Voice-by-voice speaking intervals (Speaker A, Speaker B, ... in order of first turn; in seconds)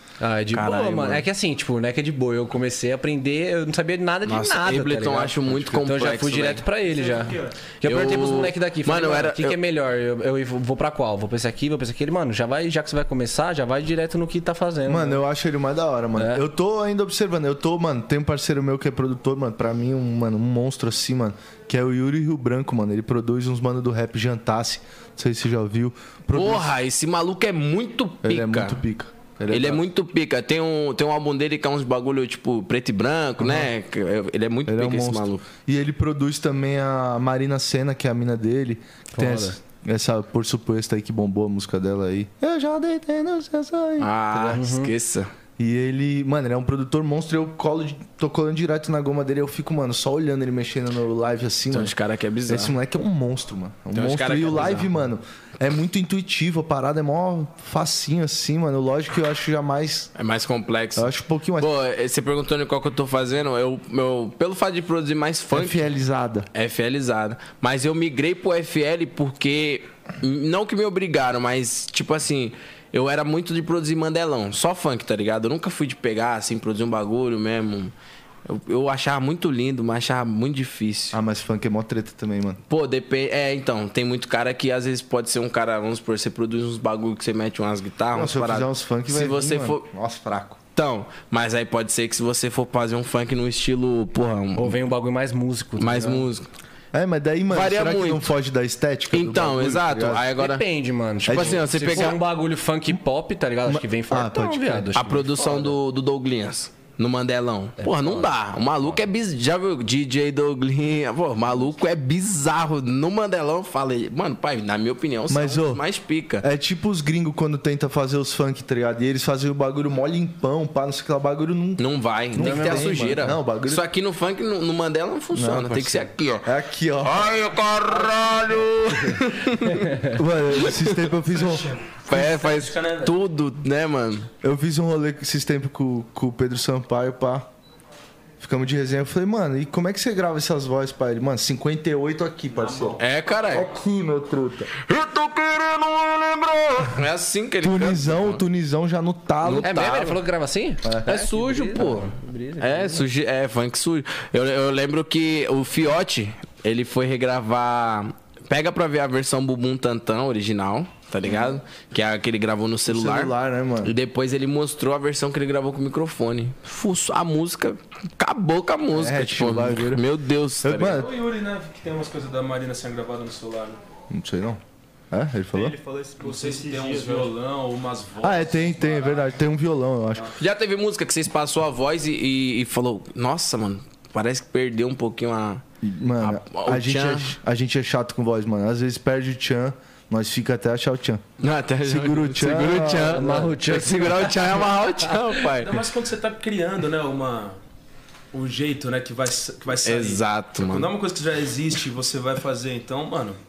Speaker A: 0.2-15.2, 16.2-16.4, 39.1-39.6, 44.5-44.9, 94.6-96.2, 100.3-105.7, 107.8-108.3, 122.4-123.1, 129.8-130.1, 149.6-153.1, 192.7-195.1
Speaker B: 0.5-1.2, 4.3-6.7, 7.8-9.6, 26.3-28.9, 29.5-35.4, 44.0-45.3, 51.7-52.7, 53.9-54.9, 60.1-65.8, 66.5-77.9, 78.5-81.2, 82.7-89.9, 90.8-94.8, 95.8-96.5, 97.5-98.3, 99.1-100.7, 101.2-102.2, 104.9-116.5, 121.8-126.5, 127.0-130.0, 130.6-131.1, 132.1-134.3, 143.0-143.7, 144.8-148.4, 149.4-150.2, 151.1-171.0, 180.4-185.6, 186.2-187.4, 191.4-195.7, 199.8-200.9
Speaker C: 6.8-7.6, 175.5-177.3
Speaker D: 14.9-26.7, 28.2-29.8, 33.4-33.7, 34.7-44.6, 45.6-52.0, 52.5-60.1, 61.0-61.7, 65.5-66.5, 81.1-82.6, 88.1-90.6, 96.9-100.3, 101.2-102.2, 103.7-104.9, 115.3-115.8, 116.4-123.9, 125.3-127.3, 130.1-131.7, 134.4-137.5, 138.4-144.7, 147.6-150.1, 150.8-151.2, 161.2-161.6, 162.9-163.9, 168.9-170.1, 170.6-171.1, 174.1-175.8, 178.2-180.3, 185.8-191.2, 191.8-193.5
Speaker E: 131.5-133.1, 142.6-143.0, 170.8-173.8, 176.2-179.1, 195.6-197.6, 198.3-203.4